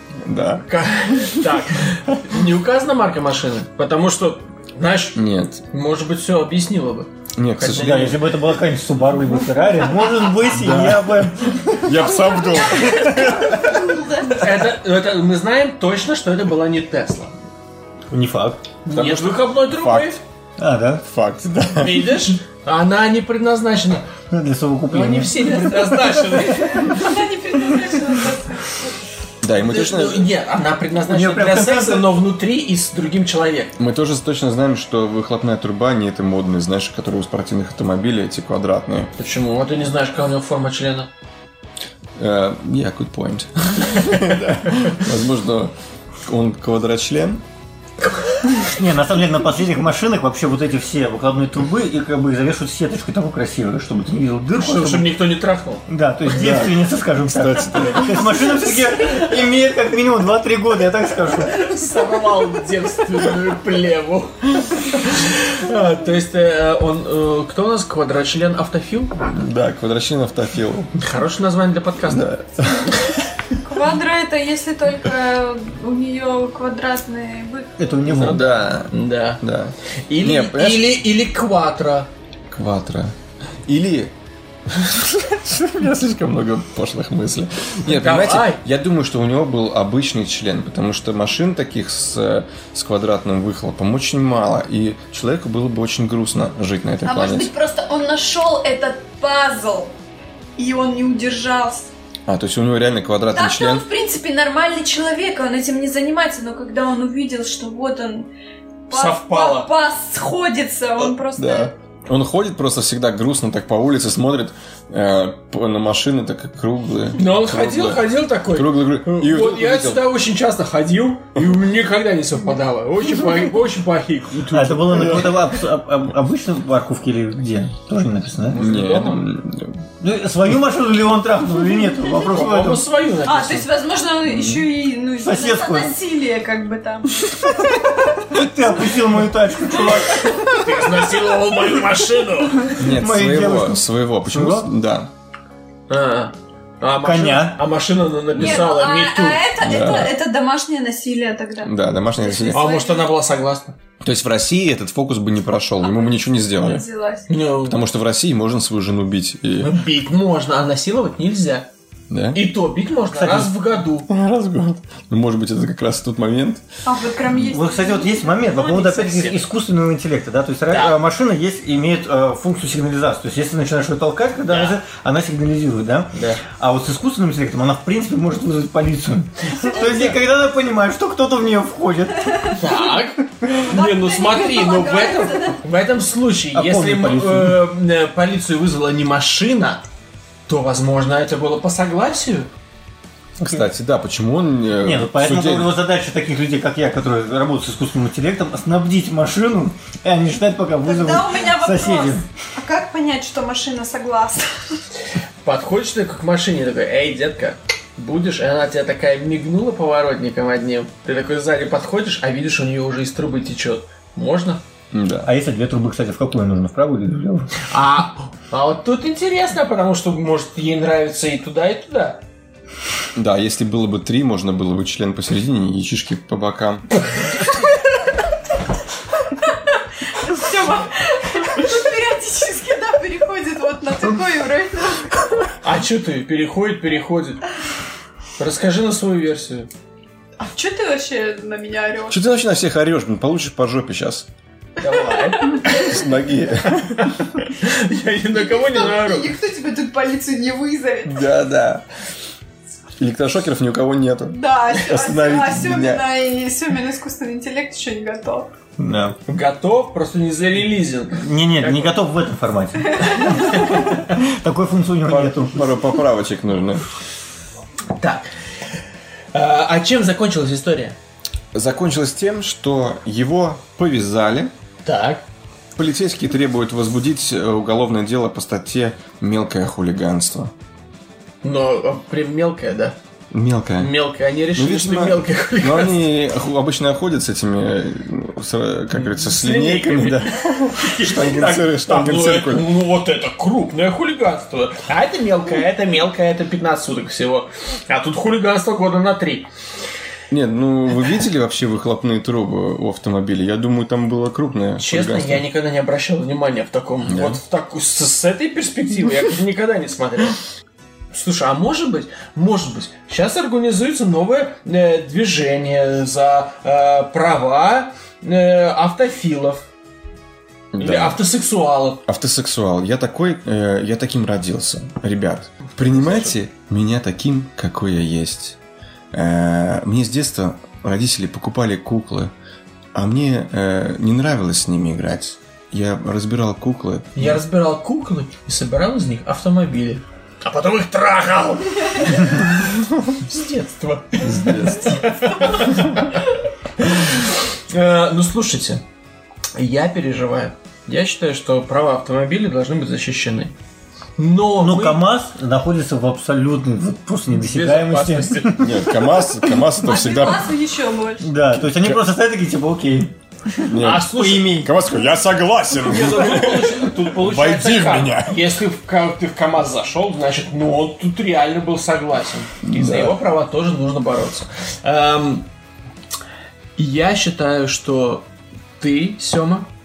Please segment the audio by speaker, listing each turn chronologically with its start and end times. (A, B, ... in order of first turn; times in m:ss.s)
0:00.2-0:00.6 A
0:00.6-0:08.2 B
0:05.1-0:05.6 A
0:07.4-0:08.2 A
0:07.6-0:12.1 C
0:10.5-0:14.0 A
0:12.5-0:14.4 D
0:14.3-0:17.3 B
0:18.1-0:18.6 C
0:18.8-0:20.2 B
0:18.9-0:20.2 A
0:20.6-0:21.0 C
0:21.0-0:22.1 A
0:21.7-0:24.0 B
0:24.3-0:26.4 C
0:24.9-0:27.0 B
0:26.5-0:28.9 D
0:29.4-0:30.3 A
0:29.6-0:33.7 B
0:31.0-0:32.1 C
0:33.8-0:39.1 A
0:39.2-0:41.1 B
0:42.2-0:45.7 A
0:46.2-0:47.4 A
0:48.6-0:55.1 C
0:54.6-0:55.8 B
0:55.9-1:01.8 C
0:56.3-0:56.7 A
0:57.2-0:58.5 A
1:01.5-1:09.2 B
1:09.3-1:10.9 A
1:11.0-1:12.3 B
1:12.0-1:13.2 A
1:13.6-1:17.8 D
1:17.8-1:18.4 C
1:18.0-1:19.4 B
1:18.2-1:21.0 A
1:20.1-1:22.1 B
1:22.5-1:23.1 A
1:23.6-1:24.1 A
1:24.7-1:37.5 A
1:27.8-1:28.6 B
1:37.0-1:39.9 D
1:40.6-1:41.9 D
1:42.3-1:43.8 A
1:43.3-1:48.3 D
1:48.9-1:51.7 D
1:48.9-1:49.7 B
1:51.0-2:00.1 A
1:57.2-2:05.3 B
2:04.5-2:08.6 C
2:04.9-2:05.3 A
2:08.5-2:09.2 B
2:08.5-2:09.8 A
2:10.0-2:12.8 C
2:12.2-2:13.7 B
2:13.2-2:17.9 D
2:14.3-2:14.6 A
2:15.2-2:15.9 C
2:18.3-2:20.5 C
2:20.5-2:22.8 B
2:22.8-2:24.7 C
2:22.8-2:25.1 A
2:25.9-2:29.4 B
2:27.0-2:27.6 C
2:28.3-2:33.1 D
2:29.6-2:30.2 A
2:31.6-2:32.6 A
2:32.5-2:33.8 B
2:34.0-2:36.8 A
2:35.8-2:37.3 D
2:37.3-2:37.8 B
2:37.6-2:39.8 A
2:39.6-2:41.7 B
2:42.1-2:42.4 A
2:42.3-2:44.1 B
2:43.1-2:43.5 C
2:44.1-2:46.6 A
2:46.8-2:49.3 D
2:47.3-3:02.6 C
2:49.0-2:49.3 B
2:50.7-2:51.0 B
2:54.5-2:54.8 B
2:56.1-2:56.4 B
2:59.5-3:00.1 B
3:02.5-3:09.8 B
3:03.4-3:05.6 D
3:06.5-3:07.6 C
3:10.5-3:12.5 B
3:13.4-3:13.6 C
3:13.4-3:15.7 A
3:14.8-3:22.2 C
3:20.8-3:24.8 D
3:25.4-3:34.6 B
3:34.9-3:35.3 A
3:35.2-3:37.5 C
3:37.6-3:42.2 B
3:43.2-3:47.0 A
3:50.2-3:55.2 D
3:55.6-3:57.4 B
3:58.4-3:59.7 B
4:00.4-4:02.2 D
4:02.1-4:04.3 A
4:04.8-4:05.9 B
4:05.3-4:05.6 D
4:05.6-4:07.1 A
4:07.0-4:09.3 B
4:08.3-4:11.3 D
4:11.0-4:11.8 A
4:13.0-4:16.0 A
4:14.3-4:18.5 D
4:18.8-4:19.2 C
4:19.3-4:22.0 B
4:21.2-4:25.7 C
4:23.0-4:23.4 D
4:25.0-4:26.8 A
4:27.9-4:28.2 B
4:29.3-4:31.0 B
4:31.5-4:34.5 A
4:34.8-4:35.2 B
4:35.8-4:40.5 A
4:41.4-4:43.0 B
4:43.3-4:44.0 A
4:43.8-4:46.0 B
4:44.5-4:52.7 A
4:48.9-4:59.5 B
5:00.3-5:05.4 A
5:04.8-5:10.4 B
5:07.1-5:07.4 A
5:11.1-5:19.7 B
5:20.7-5:21.2 A
5:20.8-5:22.0 B
5:22.0-5:28.6 A
5:25.7-5:26.4 B
5:29.1-5:32.3 A
5:32.9-5:37.4 A
5:37.1-5:46.2 B
5:44.2-5:45.0 A
5:46.8-5:48.8 B
5:49.5-5:53.5 B
5:54.2-5:55.0 B
5:54.6-5:59.1 C
5:57.3-5:58.6 B
5:58.6-6:00.6 A
5:59.8-6:01.3 D
6:01.2-6:04.7 C
6:01.7-6:02.0 A
6:03.6-6:08.4 A
6:03.8-6:04.6 B
6:05.8-6:15.5 B
6:12.6-6:13.2 A
6:16.8-6:18.3 B
6:18.8-6:19.7 B